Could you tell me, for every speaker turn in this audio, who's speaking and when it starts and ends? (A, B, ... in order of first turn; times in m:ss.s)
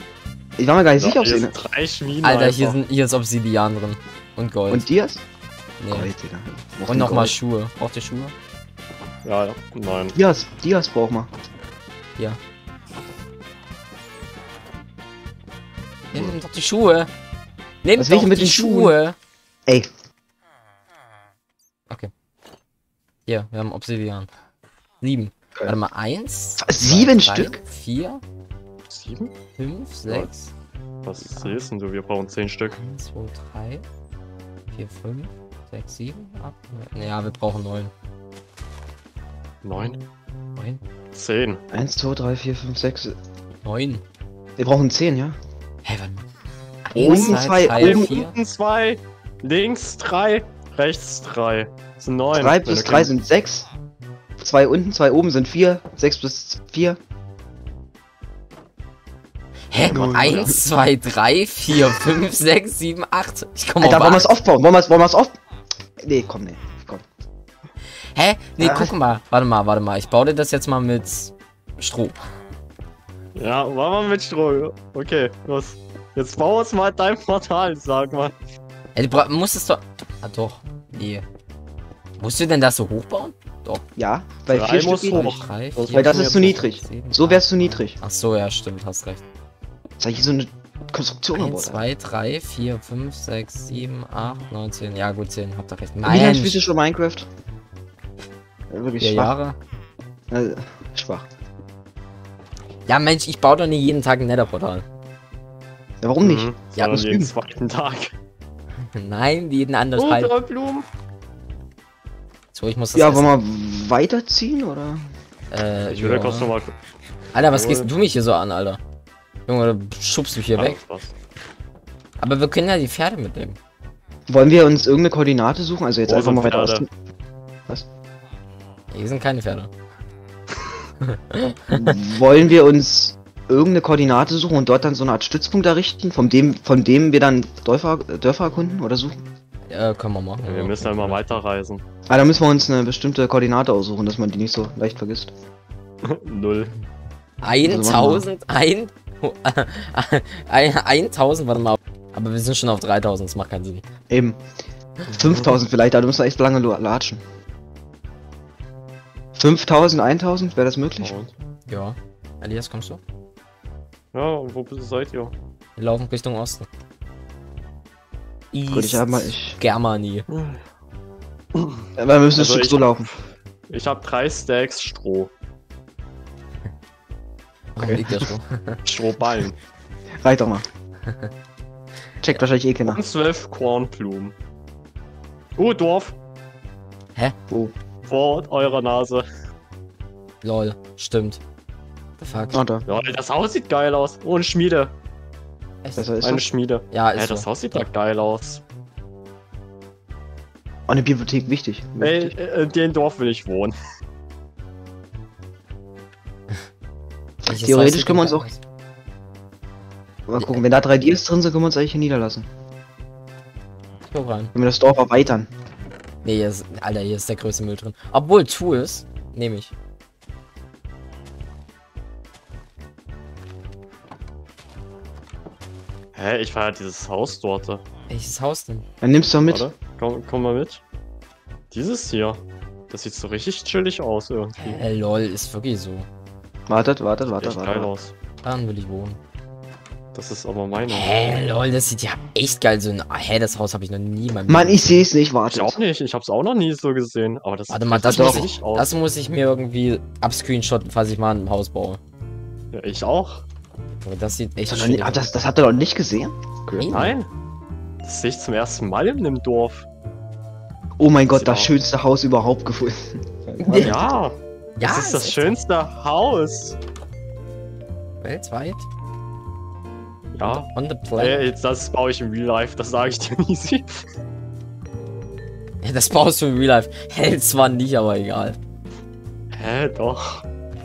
0:00.6-0:01.5 A
0:01.0-0:02.8 B
0:02.2-0:04.9 C
0:04.7-0:05.2 A
0:05.8-0:06.1 C
0:05.9-0:07.4 A
0:06.9-0:08.3 C
0:09.2-0:10.2 B
0:10.1-0:11.3 A
0:16.1-0:17.1 C
0:17.8-0:19.2 C
0:18.0-0:19.0 A
0:23.3-0:24.3 C
0:25.0-0:28.2 C
0:26.6-0:27.6 A
0:28.9-0:29.3 B
0:29.6-0:30.5 C
0:31.0-0:32.8 B
0:31.3-0:31.7 C
0:32.7-0:33.8 C
0:34.7-0:37.9 C
0:39.6-0:40.0 B
0:40.6-0:40.8 C
0:41.1-0:41.6 B
0:41.7-0:43.2 A
0:43.6-0:44.0 C
0:44.6-0:45.4 A
0:45.8-0:46.2 C
0:46.9-0:48.4 C
0:47.0-0:53.1 B
0:47.0-0:48.1 A
0:52.3-0:53.7 A
0:54.4-0:57.0 A
0:59.7-1:04.4 C
0:59.8-1:00.5 B
0:59.9-1:00.6 A
1:03.8-1:05.4 A
1:06.0-1:07.0 A
1:08.1-1:12.2 C
1:08.6-1:08.9 A
1:13.4-1:18.4 B
1:19.0-1:21.3 C
1:22.2-1:23.8 C
1:24.0-1:28.0 A
1:24.5-1:26.6 B
1:25.1-1:29.2 C
1:30.0-1:31.8 A
1:31.4-1:36.7 C
1:36.0-1:37.3 A
1:38.7-1:39.4 A
1:39.0-1:39.6 C
1:40.3-1:41.2 A
1:42.9-1:44.8 C
1:46.0-1:47.3 A
1:46.2-1:48.1 B
1:48.9-1:50.3 C
1:50.0-1:50.8 B
1:52.5-1:53.3 C
1:53.0-1:55.0 A
1:55.5-1:56.5 C
1:55.9-1:56.8 B
1:57.3-1:58.8 C
1:57.4-1:57.9 B
1:59.5-2:00.8 C
2:00.6-2:01.1 B
2:02.2-2:03.6 C
2:04.3-2:06.9 A
2:06.1-2:06.9 B
2:08.9-2:09.7 C
2:11.1-2:11.9 C
2:11.7-2:19.2 A
2:19.7-2:21.3 C
2:20.4-2:21.8 B
2:22.1-2:25.3 A
2:26.0-2:26.8 B
2:27.4-2:33.8 C
2:27.6-2:28.3 A
2:34.1-2:34.4 A
2:35.1-2:37.2 A
2:39.4-2:41.1 A
2:41.0-2:41.3 B
2:41.7-2:43.0 C
2:44.1-2:45.4 B
2:45.8-2:46.7 C
2:48.5-2:50.3 C
2:48.7-2:49.6 A
2:50.3-2:50.6 B
2:51.6-2:55.3 B
2:52.0-2:53.1 A
2:57.7-2:58.8 C
2:57.8-2:58.3 A
2:58.8-2:59.6 B
3:00.2-3:00.7 A
3:02.2-3:03.0 A
3:02.8-3:04.3 B
3:05.6-3:06.2 B
3:08.1-3:09.2 B
3:10.4-3:11.4 C
3:12.2-3:12.6 C
3:12.5-3:12.9 A
3:12.9-3:14.9 B
3:15.8-3:16.1 C
3:16.0-3:16.5 A
3:16.2-3:18.6 B
3:16.9-3:17.9 C
3:20.9-3:22.3 A
3:22.0-3:23.8 B
3:27.5-3:28.5 A
3:27.5-3:28.6 C
3:30.3-3:32.5 A
3:34.1-3:34.5 C
3:34.6-3:35.5 A
3:36.2-3:39.7 C
3:46.1-3:47.8 B
3:48.1-3:48.9 C
3:49.0-3:49.7 A
3:49.5-3:50.8 B
3:51.7-3:54.8 B
3:54.6-3:56.1 C
3:56.7-3:57.9 A
3:57.3-3:58.1 B
3:58.4-3:59.2 C
4:00.1-4:01.2 B
4:00.9-4:05.1 C
4:04.5-4:05.8 A
4:05.5-4:08.9 B
4:07.7-4:12.0 C
4:08.1-4:08.5 A
4:12.7-4:13.4 B
4:14.0-4:15.2 C
4:14.7-4:16.9 A
4:16.8-4:17.2 C
4:16.9-4:17.3 B
4:18.0-4:19.9 B
4:21.0-4:24.1 A
4:21.3-4:21.7 B
4:23.6-4:24.0 C
4:23.8-4:26.8 B
4:24.8-4:25.6 C
4:28.2-4:28.9 C
4:30.3-4:33.9 B
4:30.5-4:31.4 C
4:35.8-4:38.6 C
4:39.5-4:40.4 B